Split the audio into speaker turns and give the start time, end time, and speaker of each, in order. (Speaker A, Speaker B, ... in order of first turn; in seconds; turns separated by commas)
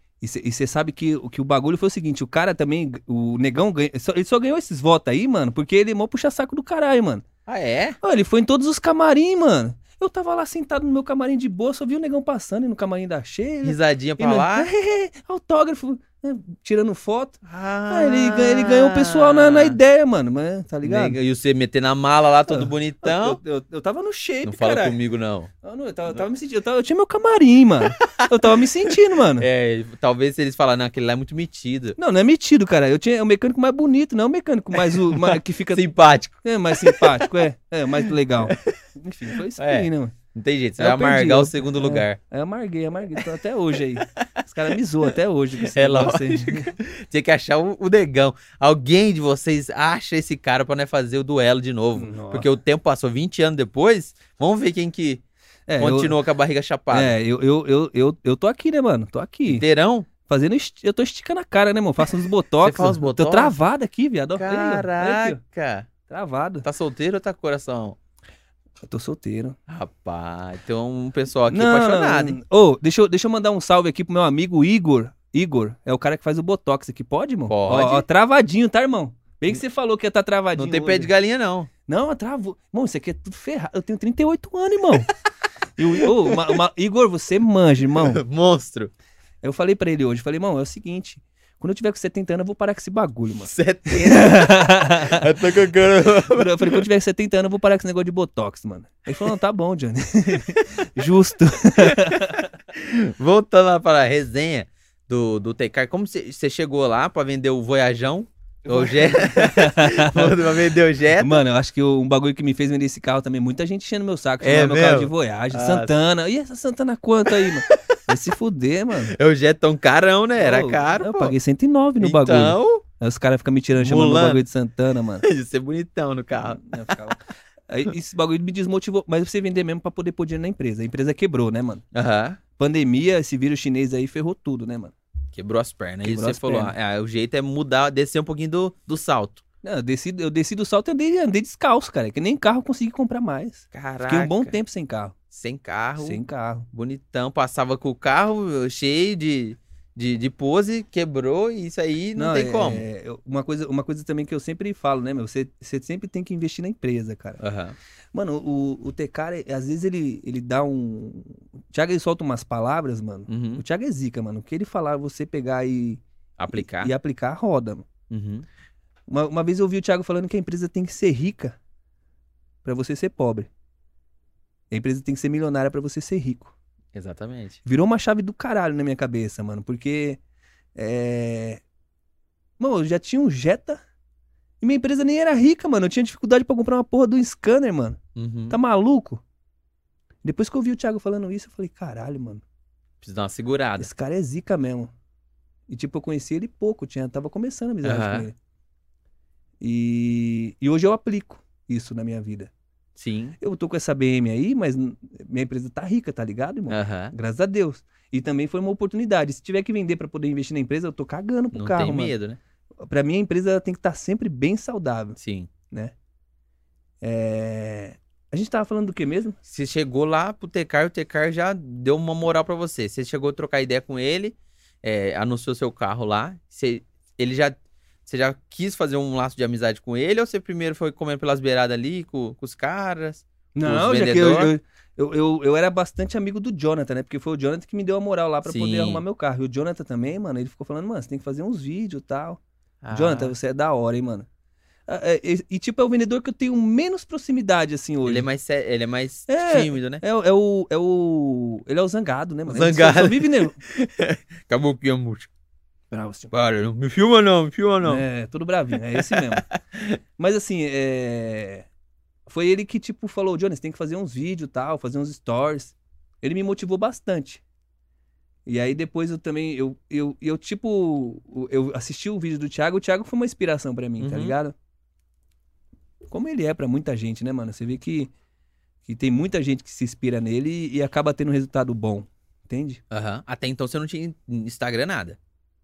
Speaker A: 0.2-7.2, Speaker B: 7.5-8.0, Speaker A: 8.0-21.2, Speaker B: 13.6-14.7, Speaker B: 17.4-19.8, Speaker B: 20.8-23.4, Speaker A: 22.5-25.0, Speaker B: 24.4-25.5, Speaker A: 25.6-29.4, Speaker B: 28.1-28.6, Speaker B: 29.4-32.0, Speaker A: 32.0-35.9, Speaker B: 34.8-37.3, Speaker A: 36.4-40.1, Speaker B: 38.4-38.7, Speaker B: 39.5-42.2, Speaker A: 40.8-46.7, Speaker B: 45.6-55.2, Speaker A: 52.0-52.5, Speaker A: 55.7-56.1, Speaker B: 55.8-57.1, Speaker A: 56.9-59.6, Speaker B: 59.5-60.1, Speaker A: 60.2-65.4, Speaker B: 62.6-63.5, Speaker B: 64.3-65.9, Speaker A: 66.1-66.6, Speaker B: 66.6-68.0, Speaker A: 68.8-69.5, Speaker B: 69.7-72.4, Speaker A: 71.5-81.1, Speaker B: 77.5-78.0, Speaker B: 80.5-81.7, Speaker A: 81.9-85.1, Speaker A: 85.8-88.2, Speaker B: 86.0-86.5, Speaker B: 88.0-88.9, Speaker A: 89.4-95.3, Speaker B: 93.4-96.8, Speaker A: 96.3-102.5, Speaker B: 101.8-111.4, Speaker A: 108.6-110.5, Speaker A: 111.2-119.1, Speaker B: 114.4-115.9, Speaker B: 117.3-117.8, Speaker B: 119.1-121.3, Speaker A: 120.4-125.2, Speaker B: 122.0-122.8, Speaker B: 123.7-124.4, Speaker B: 125.2-127.1, Speaker A: 126.4-131.8, Speaker B: 131.9-132.4, Speaker A: 132.6-134.9, Speaker B: 135.3-139.4, Speaker A: 136.0-136.7, Speaker A: 139.6-145.1, Speaker B: 143.7-144.6, Speaker B: 145.3-146.2, Speaker A: 146.0-146.7, Speaker B: 146.7-152.8, Speaker A: 152.2-157.4, Speaker B: 157.4-157.8, Speaker A: 158.1-166.0, Speaker B: 163.3-163.6, Speaker B: 166.4-166.9, Speaker A: 166.5-167.8, Speaker B: 168.1-168.4, Speaker A: 169.1-171.6, Speaker A: 172.6-173.5, Speaker A: 174.7-176.5, Speaker B: 176.9-177.6, Speaker A: 177.6-180.2, Speaker A: 180.8-181.6, Speaker A: 182.6-183.8, Speaker A: 184.6-188.0, Speaker B: 188.2-188.6, Speaker A: 188.5-189.2, Speaker A: 190.2-192.4, Speaker B: 193.0-193.9, Speaker A: 193.8-194.9, Speaker A: 195.7-198.3, Speaker B: 197.8-198.3, Speaker A: 199.6-202.5, Speaker B: 203.0-203.3, Speaker A: 203.4-212.1, Speaker B: 206.7-207.1, Speaker B: 211.5-212.4, Speaker A: 212.8-215.2, Speaker B: 215.2-215.5, Speaker A: 217.0-219.4, Speaker B: 219.4-234.5, Speaker A: 233.5-242.4, Speaker B: 238.4-239.0, Speaker B: 242.8-243.3, Speaker A: 242.9-244.3, Speaker A: 244.9-248.2, Speaker B: 248.0-250.0, Speaker A: 249.3-253.6, Speaker B: 252.5-255.3, Speaker A: 255.9-256.3, Speaker B: 256.3-258.0, Speaker A: 257.8-259.4, Speaker B: 258.9-259.9, Speaker A: 260.2-261.7, Speaker A: 262.3-267.4, Speaker A: 268.4-274.5, Speaker B: 274.0-274.4, Speaker A: 276.1-278.1, Speaker A: 278.9-282.8, Speaker B: 282.9-285.2